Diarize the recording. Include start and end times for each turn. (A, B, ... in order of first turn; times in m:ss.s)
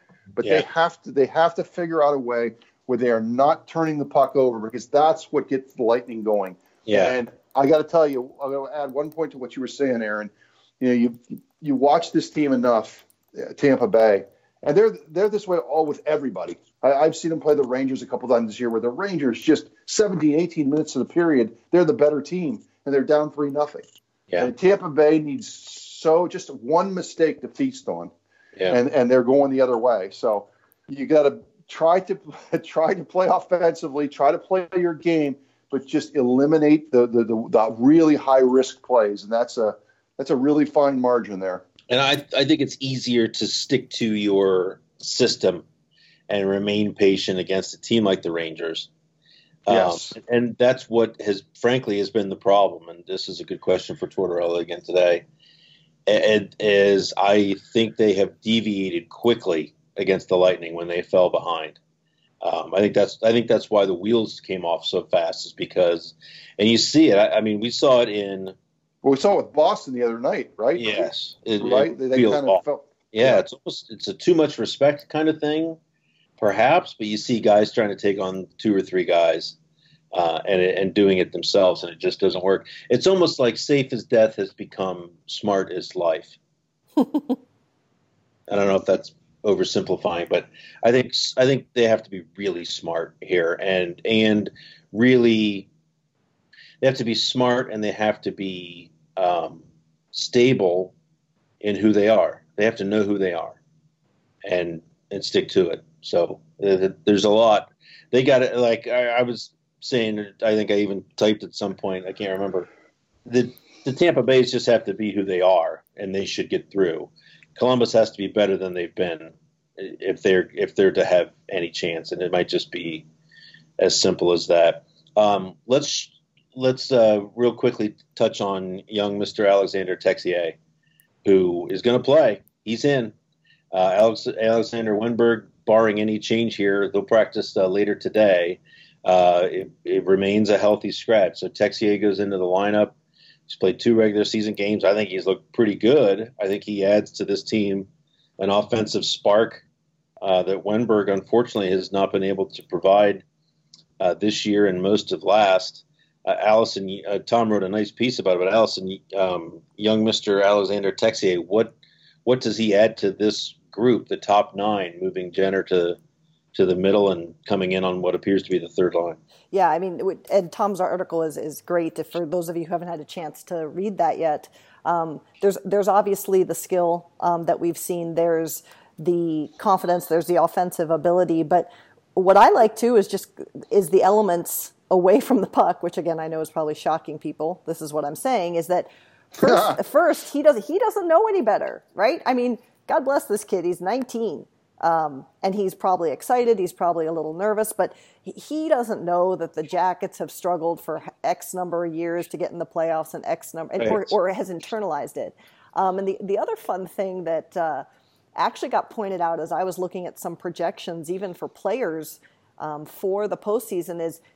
0:00.4-0:23.8 A
0:06.9-0:07.2 B
0:24.4-0:28.1 A
0:28.7-0:41.6 A
0:41.9-0:45.6 B
0:46.3-0:48.9 B
0:49.7-0:55.2 B
0:49.7-0:50.2 A
0:56.1-1:01.8 B
1:02.4-1:08.6 B
1:09.0-1:13.4 A
1:10.8-1:12.6 B
1:13.1-1:15.8 B
1:16.4-1:19.6 B
1:20.1-1:26.4 B
1:28.5-1:35.7 B
1:36.8-1:40.9 B
1:41.6-1:43.6 B
1:44.4-1:52.7 B
1:53.3-2:03.1 B
2:03.8-2:10.6 B
2:11.2-2:13.1 B
2:13.7-2:23.0 B
2:23.5-2:29.6 B
2:30.2-2:33.2 B
2:34.0-2:41.7 B
2:42.2-2:46.0 B
2:46.5-2:49.2 B
2:49.5-3:27.8 C
3:09.4-3:09.8 A
3:28.4-3:34.2 C